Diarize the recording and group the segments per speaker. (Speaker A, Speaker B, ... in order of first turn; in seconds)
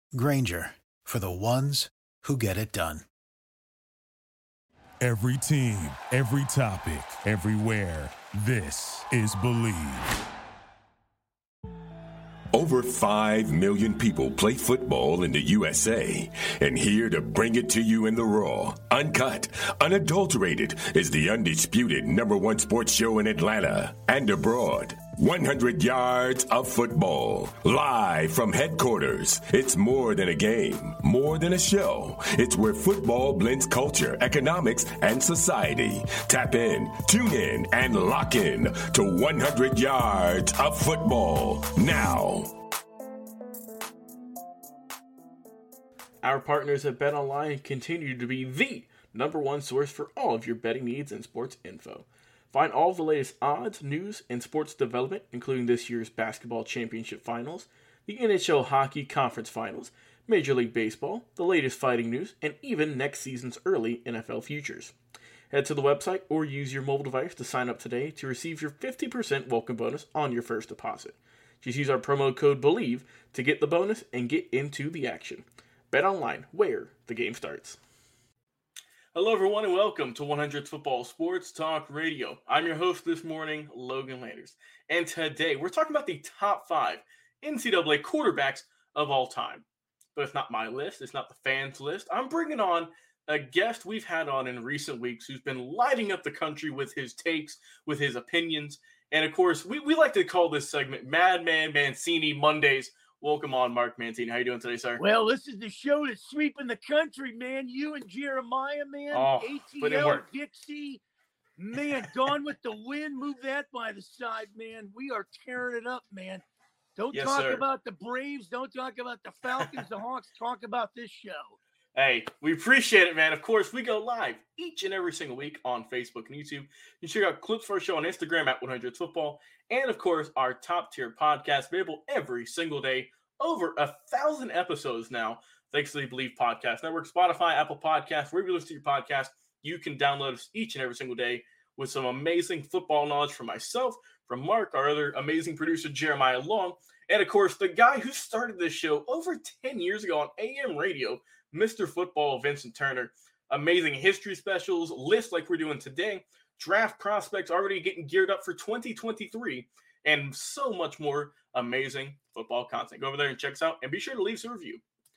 Speaker A: 0.1-3.0
Speaker B: 5.0-10.1
Speaker C: 12.5-42.5
Speaker D: 46.2-64.9, 65.5-77.8, 79.1-105.0, 109.1-110.2, 117.1-117.6, 121.9-164.8
Speaker E: 105.0-111.0, 111.6-116.4, 117.0-121.6